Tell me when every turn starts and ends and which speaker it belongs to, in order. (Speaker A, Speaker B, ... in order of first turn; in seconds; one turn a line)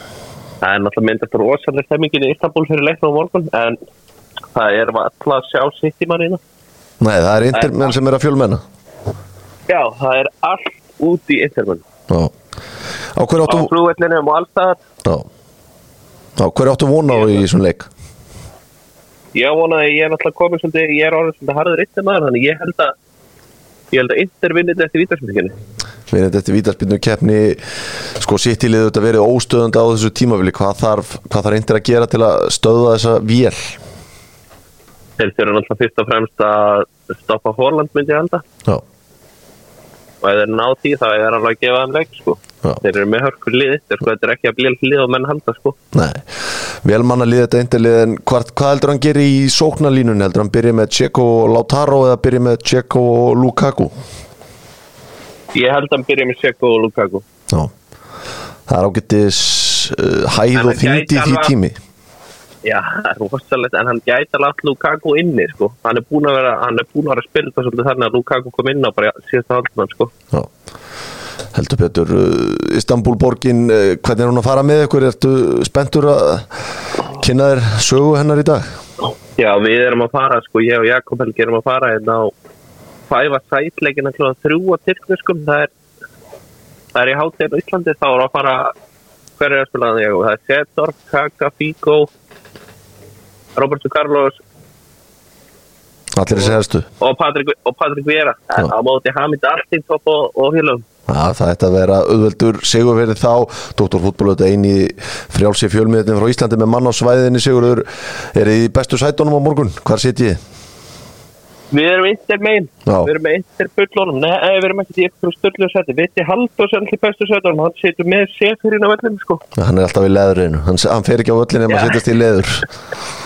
Speaker A: 0.6-3.8
Speaker A: 4.5-6.4
Speaker B: 7.0-8.6
Speaker A: 9.7-11.8
Speaker B: 13.0-13.7
Speaker A: 13.5-14.8
Speaker B: 16.4-17.9
Speaker A: 19.4-22.9
Speaker A: 23.9-25.6
Speaker B: 26.1-33.8
Speaker A: 35.2-38.4
Speaker A: 40.2-45.8
Speaker B: 45.9-54.0
Speaker A: 55.5-57.2
Speaker B: 58.7-61.8
Speaker A: 60.5-61.5
Speaker A: 62.6-70.1
Speaker B: 71.5-78.8
Speaker A: 79.4-82.3
Speaker A: 83.1-85.7
Speaker A: 86.9-88.7
Speaker A: 89.4-92.1
Speaker A: 93.6-94.4
Speaker B: 96.1-96.9
Speaker A: 97.0-100.8
Speaker B: 101.1-110.4
Speaker A: 111.7-119.4
Speaker B: 112.9-113.1
Speaker B: 119.5-122.7
Speaker A: 121.7-122.0